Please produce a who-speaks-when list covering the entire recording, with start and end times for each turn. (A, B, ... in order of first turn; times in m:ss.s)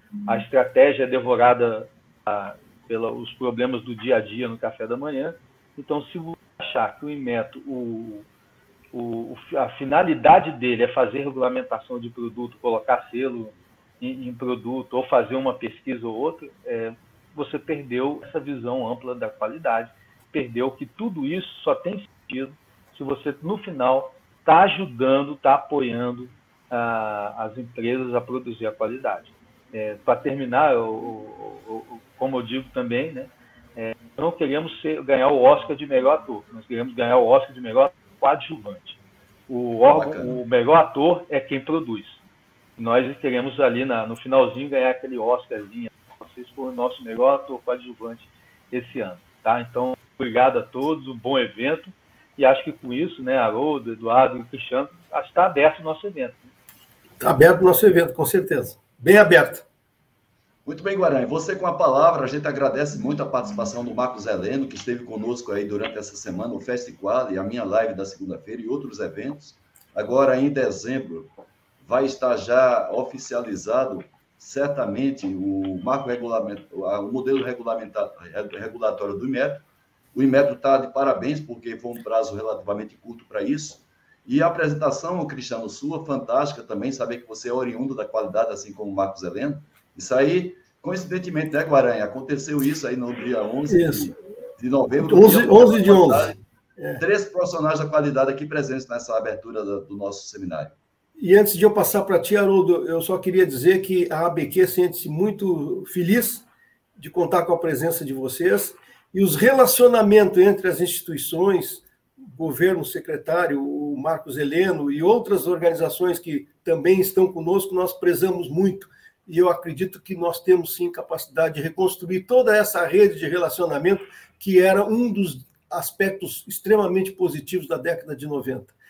0:00.3-0:08.2 A
0:08.9-0:42.2 A
0:39.9-0:40.4 B
0:42.8-0:56.5 A
0:57.2-0:59.6 C
1:00.7-1:36.4 B
1:33.7-1:34.1 C
1:35.0-1:37.0 C
1:37.0-1:40.8 B
1:41.2-1:46.4 C
1:47.0-2:08.7 C